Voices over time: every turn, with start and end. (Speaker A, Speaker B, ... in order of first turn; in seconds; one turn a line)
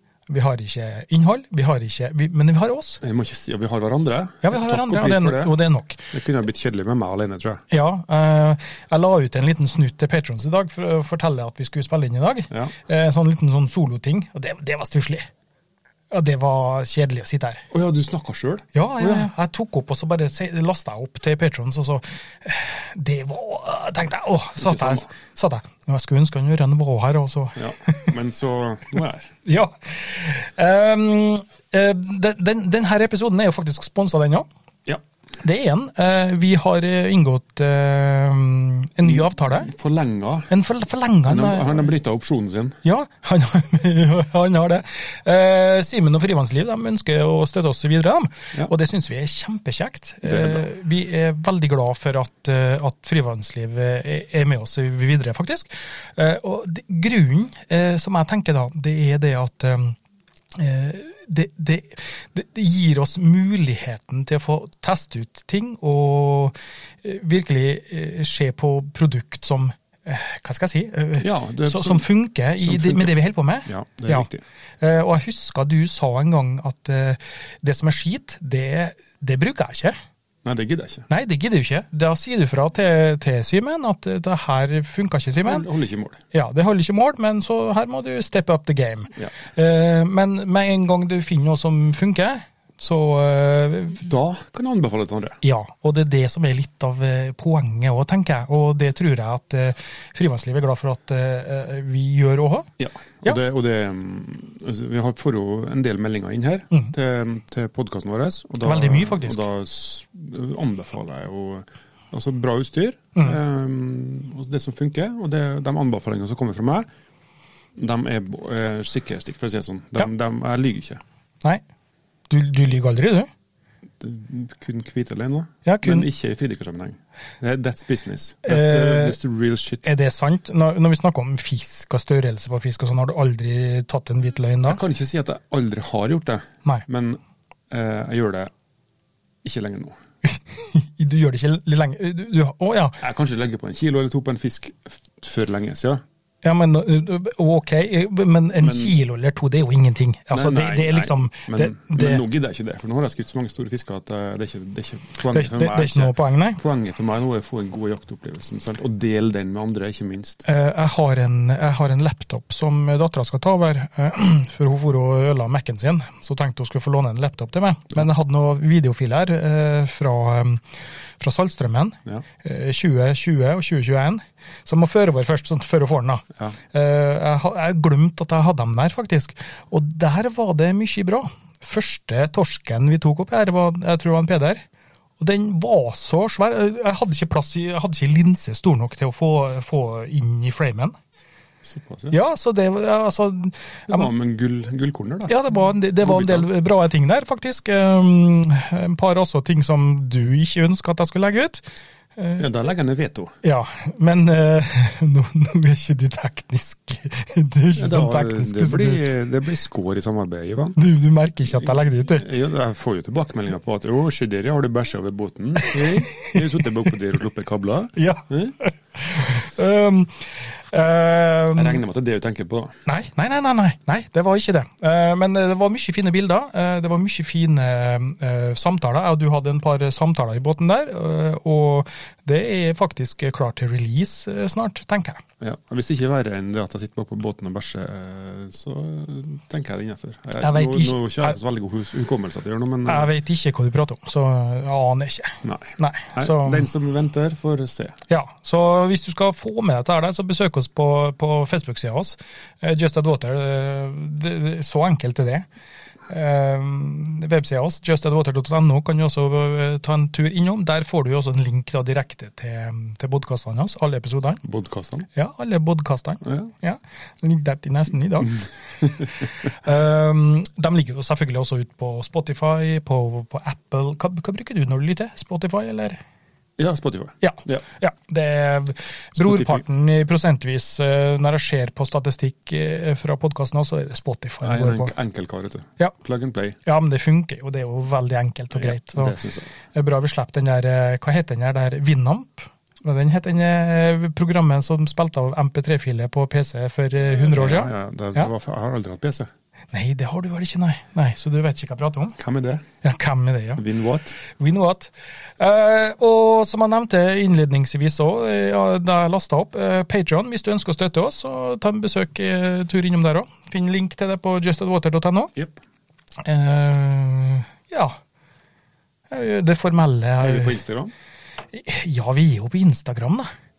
Speaker A: 0.3-3.0
Speaker B: 3.0-5.5
Speaker A: 4.4-6.0
Speaker B: 6.1-7.7
Speaker A: 7.7-15.3
Speaker A: 16.1-17.7
Speaker B: 17.7-19.3
Speaker A: 18.7-28.1
Speaker B: 24.6-25.1
Speaker B: 27.6-29.3
Speaker A: 29.4-34.5
Speaker A: 35.4-39.7
Speaker B: 39.0-40.5
Speaker A: 40.5-41.9
Speaker B: 41.3-42.8
Speaker A: 42.8-60.0
Speaker B: 50.2-50.7
Speaker A: 60.5-74.3
Speaker B: 71.2-72.1
Speaker B: 72.6-74.4
Speaker A: 74.8-80.0
Speaker B: 80.4-81.1
Speaker A: 81.1-85.7
Speaker B: 85.4-86.2
Speaker A: 86.3-94.1
Speaker B: 94.0-95.4
Speaker A: 95.4-102.7
Speaker B: 102.8-116.9
Speaker A: 108.7-109.4
Speaker B: 117.8-121.0
Speaker A: 122.3-123.3
Speaker B: 124.0-129.9
Speaker A: 125.7-126.1
Speaker A: 128.5-129.2
Speaker A: 129.8-134.8
Speaker B: 134.7-138.5
Speaker B: 139.4-139.9
Speaker A: 140.2-143.0
Speaker B: 143.0-146.0
Speaker A: 146.4-152.2
Speaker B: 148.5-149.0
Speaker B: 150.3-160.4
Speaker A: 155.3-156.6
Speaker A: 160.5-170.7
Speaker A: 171.2-184.6
Speaker A: 185.2-190.9
Speaker B: 191.6-192.2
Speaker A: 192.1-194.1
Speaker B: 193.9-195.4
Speaker A: 195.3-201.6
Speaker B: 196.0-196.5
Speaker A: 202.2-202.5
Speaker B: 202.4-203.3
Speaker A: 203.4-209.1
Speaker B: 207.8-210.8
Speaker A: 210.8-212.3
Speaker B: 211.5-218.6
Speaker A: 215.6-216.4
Speaker A: 218.0-221.8
Speaker B: 221.5-222.8
Speaker A: 222.8-235.2
Speaker B: 235.4-243.1
Speaker A: 240.4-241.3
Speaker A: 242.9-246.7
Speaker B: 245.4-248.0
Speaker A: 248.1-255.5
Speaker A: 256.1-264.4
Speaker B: 264.4-265.1
Speaker A: 265.1-268.4
Speaker B: 266.2-266.5
Speaker B: 268.8-269.1
Speaker A: 269.4-276.0
Speaker B: 276.6-277.6
Speaker A: 277.2-284.9
Speaker B: 279.2-279.6
Speaker B: 284.4-286.6
Speaker A: 286.6-289.1
Speaker B: 288.5-289.5
Speaker A: 289.7-298.3
Speaker B: 297.1-299.3
Speaker A: 299.7-302.2
Speaker B: 302.2-302.6
Speaker A: 302.8-303.6
Speaker B: 303.6-304.2
Speaker A: 304.2-315.3
Speaker A: 316.2-318.0
Speaker A: 319.1-320.6
Speaker B: 320.2-320.9
Speaker A: 321.5-323.3